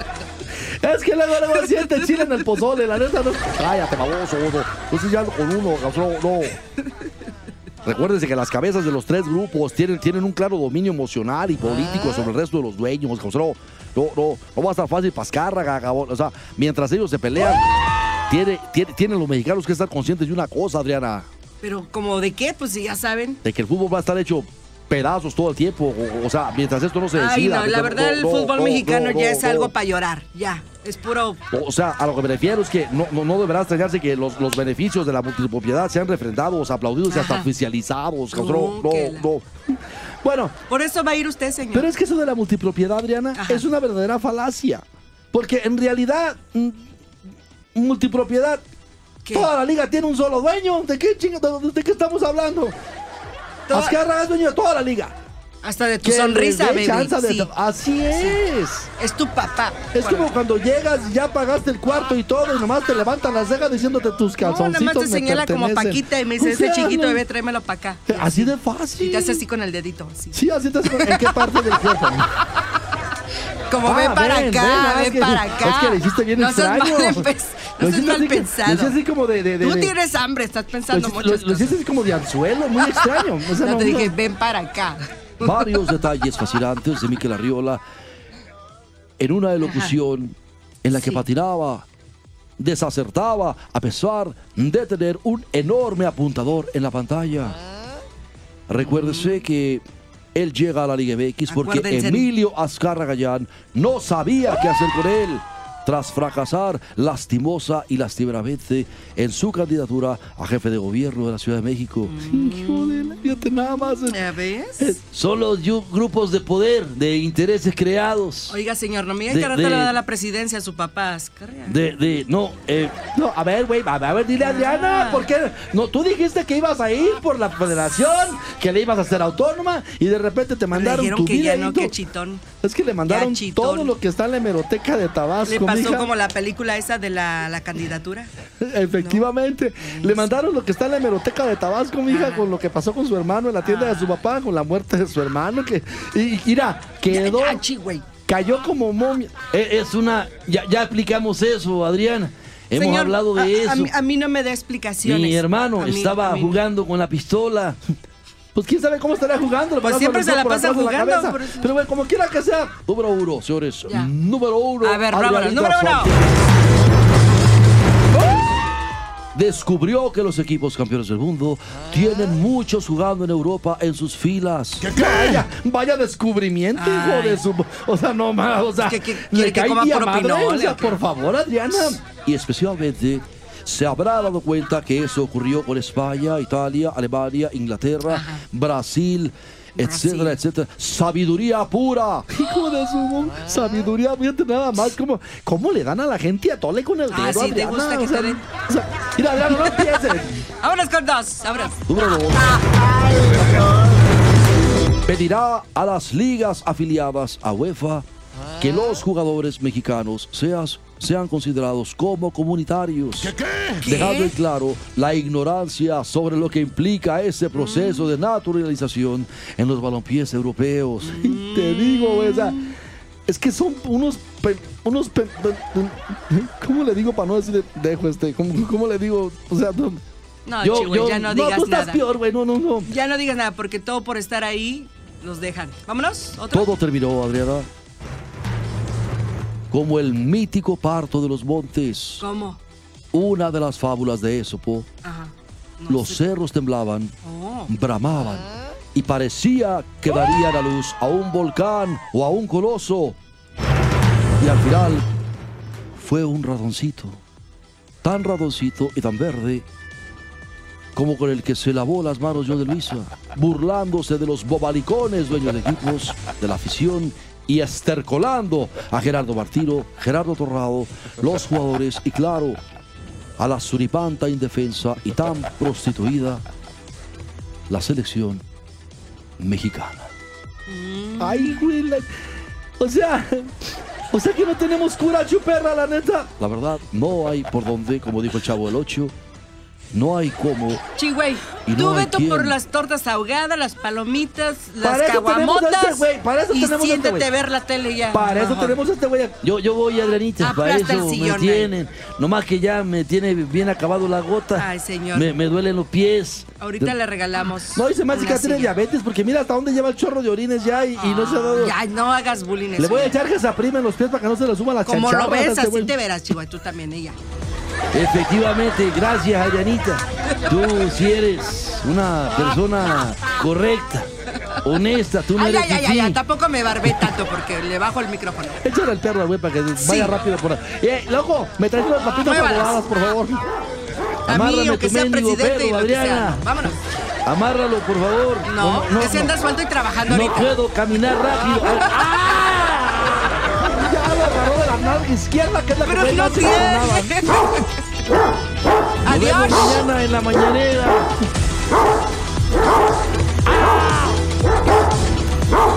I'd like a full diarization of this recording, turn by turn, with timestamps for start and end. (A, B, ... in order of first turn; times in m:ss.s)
0:00.8-0:06.6 A
0:07.8-0:17.7 A
0:18.3-0:21.3 A
0:21.6-0:23.4 B
0:23.4-0:29.7 A
0:27.1-0:31.4 B
0:31.5-0:40.5 A
0:37.1-0:37.5 B
0:38.3-0:39.3 B
0:40.7-0:41.9 B
0:41.7-0:46.9 A
0:43.3-0:43.6 B
0:47.7-0:48.6 A
0:49.2-0:49.5 B
0:49.3-0:52.8 A
0:53.7-0:54.0 B
0:53.7-0:55.1 A
0:55.6-0:57.5 B
0:56.0-0:58.9 A
0:59.0-1:00.4 B
0:59.9-1:07.2 A
1:04.4-1:11.3 B
1:08.1-1:09.4 A
1:10.3-1:12.3 A
1:13.7-1:19.0 B
1:13.8-1:19.9 A
1:19.6-1:21.8 B
1:20.9-1:24.2 A
1:22.8-1:25.7 B
1:25.4-1:27.8 A
1:29.2-1:31.8 A
1:29.6-1:29.9 B
1:30.9-1:31.2 B
1:32.6-1:37.6 A
1:38.7-1:54.2 A
1:38.8-1:39.4 B
1:41.5-1:42.3 B
1:52.0-1:53.5 B
1:54.0-1:55.0 B
1:54.8-1:58.6 A
1:58.5-2:01.8 B
1:59.3-1:59.9 A
2:01.6-2:11.9 A
2:04.4-2:05.3 B
2:10.7-2:12.4 B
2:12.6-2:16.1 A
2:13.0-2:13.9 B
2:15.5-2:18.3 B
2:18.6-2:27.6 A
2:19.0-2:19.2 B
2:19.8-2:20.3 B
2:22.1-2:22.4 B
2:23.6-2:24.2 B
2:27.1-2:28.0 B
2:28.2-2:33.9 A
2:32.7-2:36.6 B
2:35.0-2:37.8 A
2:38.5-2:46.5 A
2:39.8-2:41.7 B
2:44.8-2:46.1 B
2:49.3-3:20.4 A
2:56.8-2:57.4 B
2:58.8-3:01.0 B
3:08.1-3:08.4 B
3:09.8-3:10.4 B
3:17.1-3:18.4 B
3:20.6-3:21.8 B
3:21.9-3:22.6 A
3:23.1-3:23.6 A
3:25.0-3:28.0 A
3:28.6-3:42.7 A
3:33.8-3:34.3 B
3:37.6-3:38.1 B
3:41.0-3:42.8 B
3:43.2-3:50.0 A
3:50.4-3:52.0 B
3:50.6-3:52.9 A
3:52.8-3:56.7 B
3:56.5-3:57.7 A
3:59.7-4:02.2 A
4:02.2-4:02.6 B
4:03.1-4:04.9 A
4:05.0-4:06.2 B
4:05.9-4:07.1 A
4:07.2-4:07.7 B
4:07.7-4:13.2 A
4:14.4-4:15.1 A
4:15.9-4:17.2 A
4:18.0-4:19.6 A
4:20.9-4:32.6 A
4:33.4-4:36.4 A
4:37.7-4:38.4 A
4:39.4-4:40.1 A
4:40.7-4:41.7 B
4:41.2-4:42.2 A
4:42.8-4:49.1 A
4:49.9-4:50.8 A
4:51.0-4:58.8 B
4:51.6-4:52.6 A
4:54.8-4:57.3 A
4:58.1-5:06.9 A
5:00.4-5:01.7 B
5:04.6-5:05.3 B
5:06.6-5:08.7 B
5:07.6-5:11.7 A
5:11.0-5:13.2 B
5:12.8-5:15.9 A
5:14.8-5:17.2 B
5:17.9-5:24.1 A
5:24.6-5:26.2 A
5:25.3-5:28.6 B
5:26.8-5:27.1 A
5:28.6-5:33.4 A
5:29.8-5:30.1 B
5:32.2-5:32.8 B
5:34.2-5:36.8 B
5:34.3-5:36.5 A
5:37.2-5:39.3 A
5:38.4-5:40.5 B
5:40.1-5:47.2 A
5:45.8-5:47.7 B
5:49.0-5:49.8 B
5:49.0-5:51.1 A
5:53.4-5:54.2 A